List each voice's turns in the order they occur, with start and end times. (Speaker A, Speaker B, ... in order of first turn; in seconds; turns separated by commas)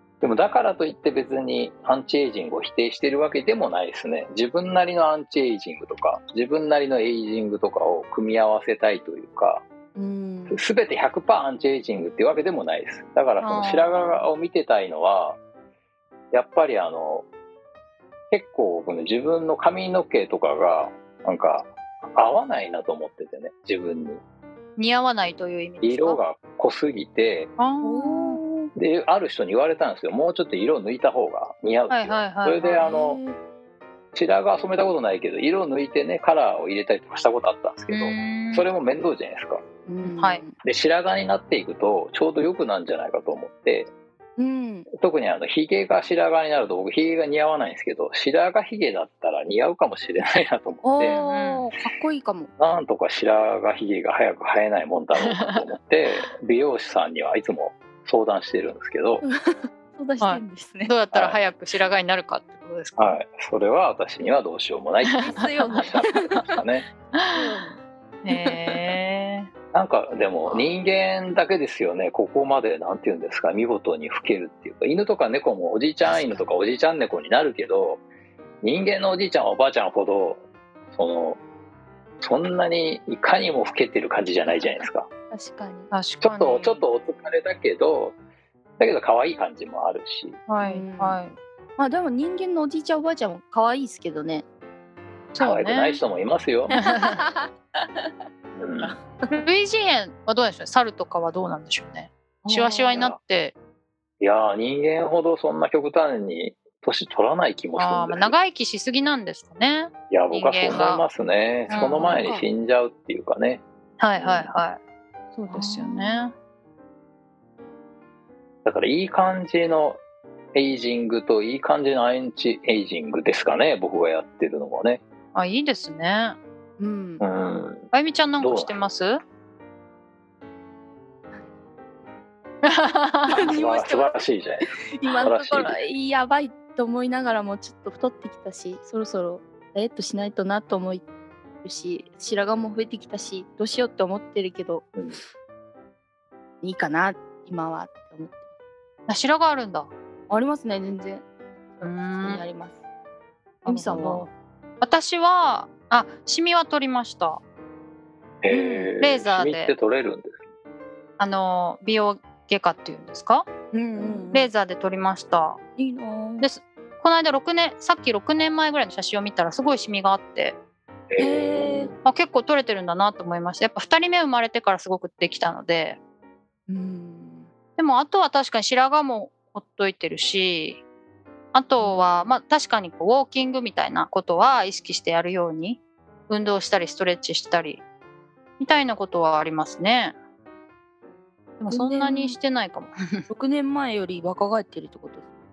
Speaker A: 0.2-9.6, Speaker B: 9.9-10.6, Speaker A: 10.5-15.4, Speaker C: 13.4-14.2, Speaker A: 16.3-17.3, Speaker A: 18.3-24.2, Speaker C: 24.8-26.2, Speaker A: 25.8-27.5, Speaker C: 27.6-28.4, Speaker B: 27.8-28.7, Speaker A: 28.8-33.2, Speaker C: 31.9-32.9, Speaker B: 32.8-33.4, Speaker A: 34.1-39.6, Speaker C: 37.9-38.7, Speaker B: 39.9-40.6, Speaker C: 40.0-40.4, Speaker A: 40.6-43.9, Speaker B: 44.4-44.9, Speaker A: 45.0-51.2, Speaker B: 50.8-52.5, Speaker C: 51.0-51.6, Speaker A: 52.6-59.3, Speaker C: 55.2-55.6, Speaker B: 59.2-60.9, Speaker C: 60.2-63.2, Speaker A: 61.1-61.4, Speaker A: 63.0-66.8, Speaker B: 65.1-66.3, Speaker C: 67.2-67.4, Speaker B: 67.3-68.9, Speaker C: 68.2-69.5, Speaker A: 69.7-78.0, Speaker B: 76.0-76.5, Speaker A: 78.6-81.4, Speaker A: 82.2-85.1, Speaker B: 84.5-85.9, Speaker C: 85.9-86.8, Speaker A: 86.2-88.2, Speaker A: 88.8-90.4, Speaker C: 90.5-91.4, Speaker B: 90.6-91.2, Speaker B: 91.8-94.5, Speaker C: 95.3-96.0, Speaker A: 95.4-96.7, Speaker B: 96.7-98.1, Speaker C: 96.8-97.2, Speaker A: 98.6-99.0, Speaker B: 98.7-99.4, Speaker C: 99.4-103.5, Speaker B: 102.5-103.1, Speaker A: 104.2-108.3, Speaker C: 107.8-111.0, Speaker A: 110.1-113.6, Speaker C: 111.7-112.2, Speaker B: 111.7-112.5, Speaker C: 114.0-114.8, Speaker A: 114.2-114.5, Speaker B: 115.3-116.3, Speaker C: 115.5-116.3, Speaker A: 118.7-120.0, Speaker A: 120.5-125.0, Speaker C: 125.3-126.4, Speaker B: 126.8-127.2, Speaker A: 127.2-128.8, Speaker C: 127.9-129.2, Speaker C: 132.6-133.4, Speaker B: 133.3-134.2, Speaker A: 133.5-135.8, Speaker B: 135.0-141.1, Speaker B: 141.6-144.9, Speaker B: 146.6-148.5, Speaker C: 149.1-149.9, Speaker B: 150.3-152.8, Speaker C: 151.8-152.5, Speaker C: 153.6-154.3, Speaker B: 153.7-154.2, Speaker C: 154.8-157.4, Speaker A: 158.4-160.4, Speaker B: 158.5-158.9, Speaker C: 159.0-159.7, Speaker C: 161.2-163.5, Speaker B: 163.7-164.5, Speaker C: 164.3-165.6, Speaker B: 165.8-166.5, Speaker C: 166.4-170.6, Speaker A: 171.1-172.0, Speaker B: 171.2-171.9, Speaker C: 172.1-176.0, Speaker B: 176.7-177.5, Speaker C: 177.8-180.8, Speaker C: 181.5-187.8, Speaker B: 181.8-182.4, Speaker C: 188.6-190.2, Speaker C: 191.6-193.2, Speaker B: 191.7-192.4, Speaker B: 193.3-195.3